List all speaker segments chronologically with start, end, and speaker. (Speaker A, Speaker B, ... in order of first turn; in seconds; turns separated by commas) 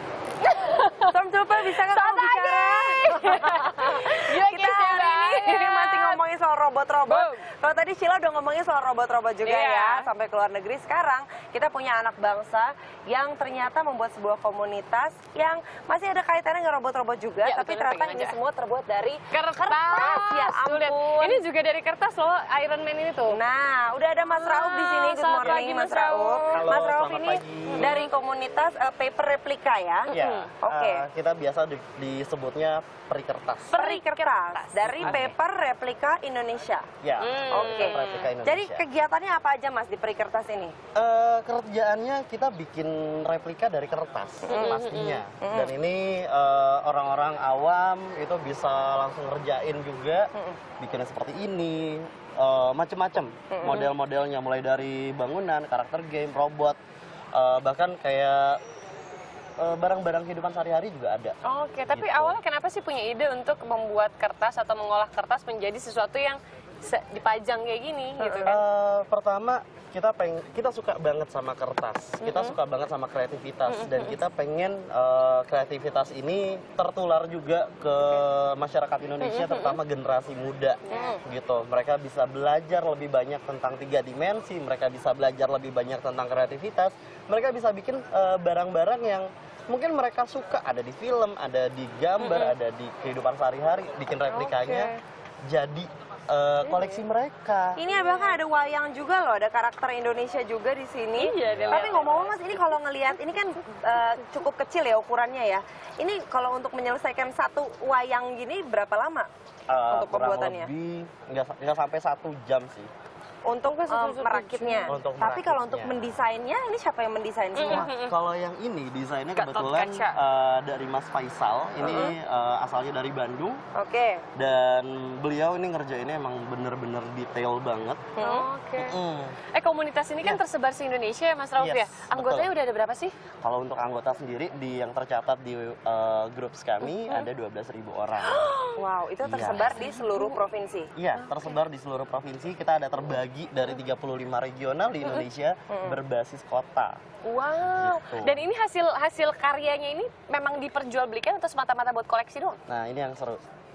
Speaker A: 0.4-6.2, Speaker B: 1.1-21.4, Speaker A: 7.1-7.4, Speaker A: 9.4-10.1, Speaker A: 17.4-18.4, Speaker A: 19.3-23.4, Speaker B: 23.3-31.1, Speaker A: 24.3-26.7, Speaker C: 26.5-27.9, Speaker A: 27.7-28.1, Speaker A: 30.1-30.5, Speaker C: 30.1-33.8, Speaker A: 33.7-35.3, Speaker B: 33.8-36.9, Speaker C: 35.0-35.3, Speaker C: 37.0-38.8, Speaker A: 37.2-38.3, Speaker B: 37.5-40.8, Speaker C: 41.0-56.8, Speaker B: 44.5-44.8, Speaker A: 44.5-45.2, Speaker B: 45.4-45.7, Speaker B: 50.3-50.6, Speaker B: 53.5-53.9, Speaker C: 57.3-58.6, Speaker C: 59.6-61.4, Speaker A: 61.5-68.6, Speaker C: 61.9-62.4, Speaker B: 68.2-68.6, Speaker C: 68.5-94.9, Speaker A: 72.2-72.6, Speaker A: 73.7-74.2, Speaker A: 79.2-79.8, Speaker B: 80.9-81.2, Speaker A: 92.2-92.6, Speaker A: 94.3-95.0, Speaker C: 95.5-97.8, Speaker A: 96.7-97.0, Speaker B: 97.8-109.3, Speaker A: 97.9-98.4, Speaker A: 101.2-102.5, Speaker C: 101.5-102.0, Speaker A: 103.7-104.1, Speaker C: 109.7-112.9, Speaker B: 109.9-110.7, Speaker B: 113.5-117.9, Speaker A: 113.7-115.0, Speaker C: 114.9-116.0, Speaker A: 117.6-118.2, Speaker C: 117.7-123.6, Speaker A: 119.3-120.2, Speaker A: 121.8-122.2, Speaker B: 121.8-122.1, Speaker B: 123.8-124.2, Speaker C: 124.3-128.1, Speaker B: 128.2-128.5, Speaker A: 128.2-129.0, Speaker C: 128.8-129.4, Speaker A: 129.5-133.1, Speaker C: 131.6-132.5, Speaker C: 133.4-138.5, Speaker A: 136.8-137.3, Speaker A: 138.2-138.8, Speaker B: 138.8-140.9, Speaker C: 139.2-139.8, Speaker A: 139.7-140.4, Speaker C: 141.0-147.0, Speaker A: 141.2-141.6, Speaker B: 145.7-146.0, Speaker A: 147.2-152.6, Speaker C: 147.6-148.5, Speaker C: 152.7-153.4